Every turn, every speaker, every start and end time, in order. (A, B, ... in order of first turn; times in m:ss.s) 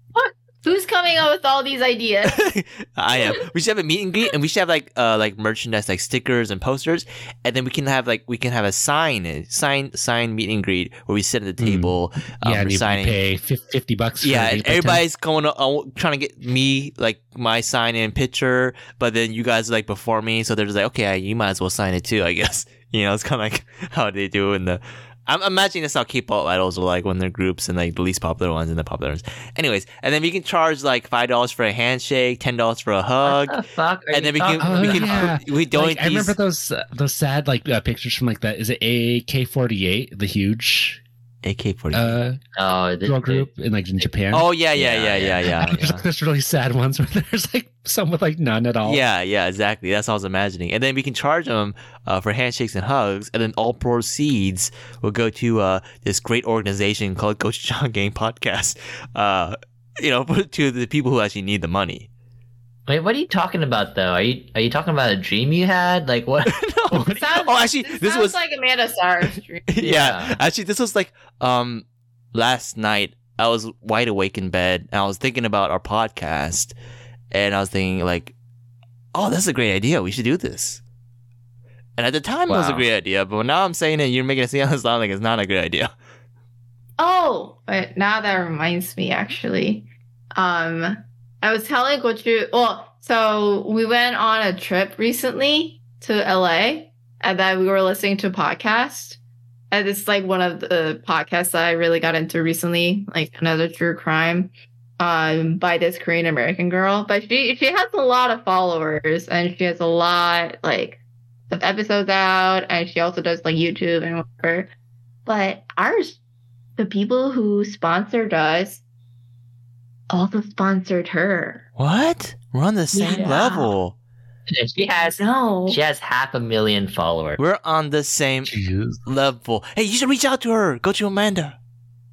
0:00.2-0:02.4 A
0:02.3-0:13.2 B
0:11.6-0:15.0 C
0:14.2-0:33.6 B
0:33.2-0:35.3 D
0:34.1-0:36.4 B
0:34.6-0:41.0 C
0:41.4-0:42.2 B
0:41.9-0:42.4 C
0:42.6-0:43.5 D
0:43.0-0:44.5 C
0:44.3-0:46.0 B
0:44.8-0:45.6 D
0:45.4-0:49.0 C
0:48.8-1:02.1 B
1:02.9-1:07.2 D
1:06.5-1:08.4 B
1:07.1-1:10.0 A
1:09.7-1:16.8 B
1:09.8-1:10.4 D
1:17.3-1:18.4 B
1:19.1-1:20.8 B
1:22.0-1:25.9 B
1:22.5-1:22.9 D
1:27.0-1:39.2 A
1:39.7-1:54.7 A
1:55.3-1:56.2 A
1:56.8-1:58.8 A
2:00.1-2:01.6 A
2:01.8-2:04.0 B
2:02.9-2:03.8 A
2:04.5-2:07.4 D
2:05.2-2:05.8 A
2:07.4-2:08.5 B
2:08.5-2:09.0 C
2:09.1-2:11.6 B